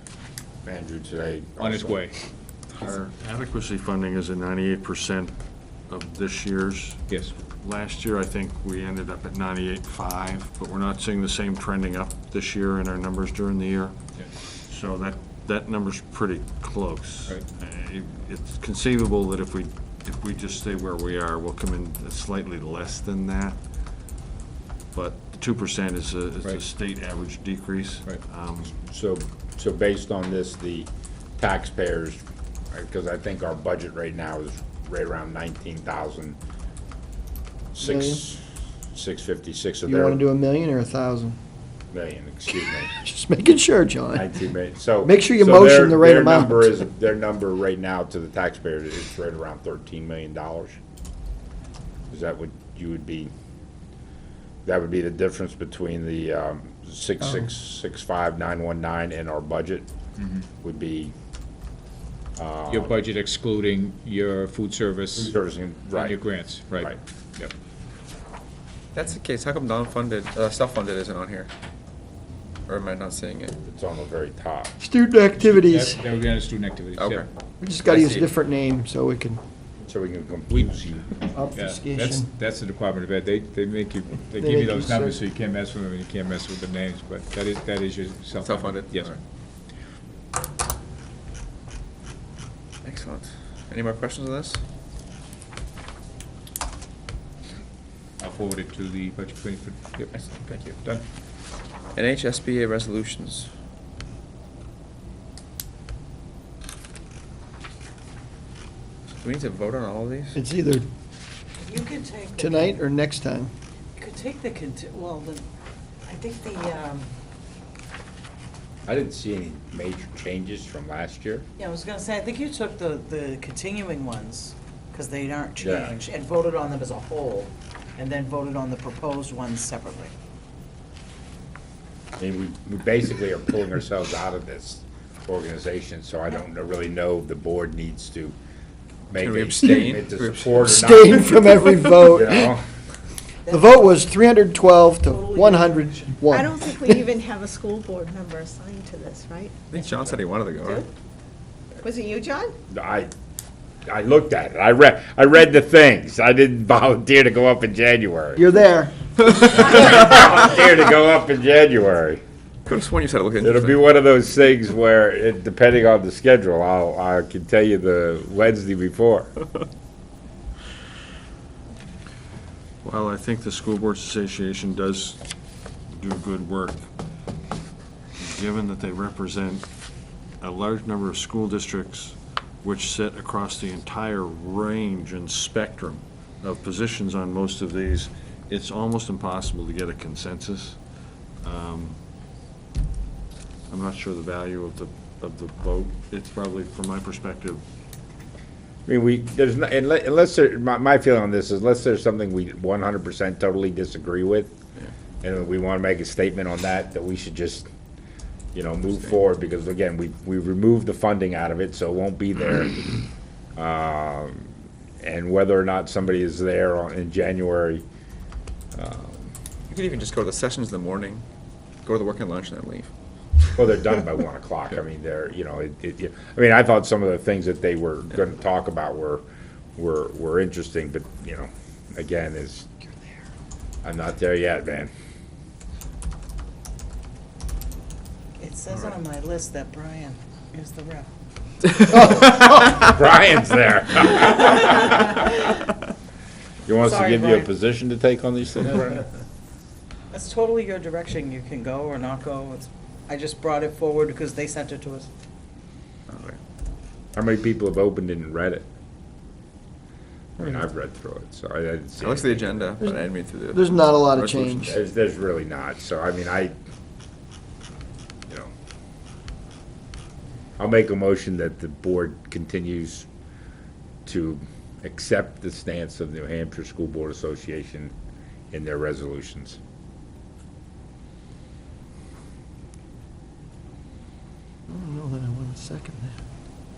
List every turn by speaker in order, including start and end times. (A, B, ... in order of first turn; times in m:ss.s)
0:00.6-0:02.0 A
0:01.6-0:02.1 B
0:02.8-0:05.3 C
0:05.9-0:23.6 C
0:07.1-0:07.4 B
0:24.9-0:28.8 C
0:28.8-0:36.4 A
0:37.7-0:38.4 A
0:37.8-0:38.2 D
0:38.9-0:40.2 A
0:39.9-0:41.4 D
0:41.9-0:42.9 A
0:42.9-0:44.3 D
0:44.1-0:50.8 A
0:45.0-0:46.8 D
0:52.1-0:53.3 A
0:54.6-0:59.9 A
1:00.2-1:00.4 B
1:00.6-1:01.1 A
1:02.4-1:02.9 A
1:02.7-1:05.3 B
1:05.2-1:07.0 A
1:05.9-1:07.5 B
1:08.9-1:11.5 E
1:12.7-1:13.6 E
1:13.6-1:14.7 A
1:14.8-1:16.0 D
1:15.4-1:17.2 B
1:16.9-1:17.3 E
1:17.6-1:19.4 D
1:17.8-1:18.3 E
1:19.8-1:21.2 A
1:21.3-1:22.3 D
1:21.5-1:29.1 B
1:24.3-1:25.2 D
1:28.4-1:29.2 E
1:32.8-1:34.6 E
1:38.2-1:41.0 B
1:40.1-1:40.7 E
1:41.9-1:43.5 E
1:49.2-1:50.4 E
1:50.3-1:50.8 D
1:51.6-1:52.8 F
1:52.4-1:53.5 D
1:54.0-1:55.4 F
1:56.1-1:57.0 F
1:58.8-2:01.4 A
2:01.6-2:10.1 F
2:05.6-2:06.0 A
2:12.2-2:18.4 A
2:19.1-2:21.5 A
2:19.1-2:20.8 E
2:20.6-2:22.5 D
2:22.0-2:22.6 A
2:23.4-2:23.9 F
2:23.5-2:27.0 D
2:25.0-2:26.3 F
2:26.3-2:29.6 G
2:29.7-2:30.9 E
2:31.8-2:32.5 G
2:32.7-2:33.1 A
2:33.8-2:38.4 A
2:38.4-2:38.9 D
2:39.4-2:42.2 A
2:42.6-2:43.8 E
2:43.4-2:49.3 A
2:52.8-2:55.2 C
2:55.9-2:56.8 C
2:58.2-2:59.7 C
3:00.4-3:10.8 C
3:11.4-3:12.0 C
3:13.7-3:17.6 C
3:18.8-3:24.6 A
3:25.2-3:27.7 A
3:28.5-3:33.0 A
3:33.6-3:37.8 A
3:38.7-3:39.3 A
3:39.7-3:41.2 E
3:41.8-3:42.9 E
3:43.5-3:49.2 A
3:49.8-3:52.7 A
3:53.8-3:54.9 A
3:58.4-4:01.1 F
4:01.9-4:02.2 D
4:02.0-4:05.5 A
4:06.6-4:09.0 A
4:06.8-4:07.5 F
4:10.1-4:15.1 F
4:16.1-4:16.4 E
4:17.2-4:18.7 A
4:20.4-4:22.7 A
4:22.0-4:24.8 E
4:22.8-4:24.7 D
4:24.7-4:26.5 A
4:30.6-4:33.1 A
4:34.0-4:37.9 A
4:38.5-4:39.6 A
4:44.7-4:46.1 D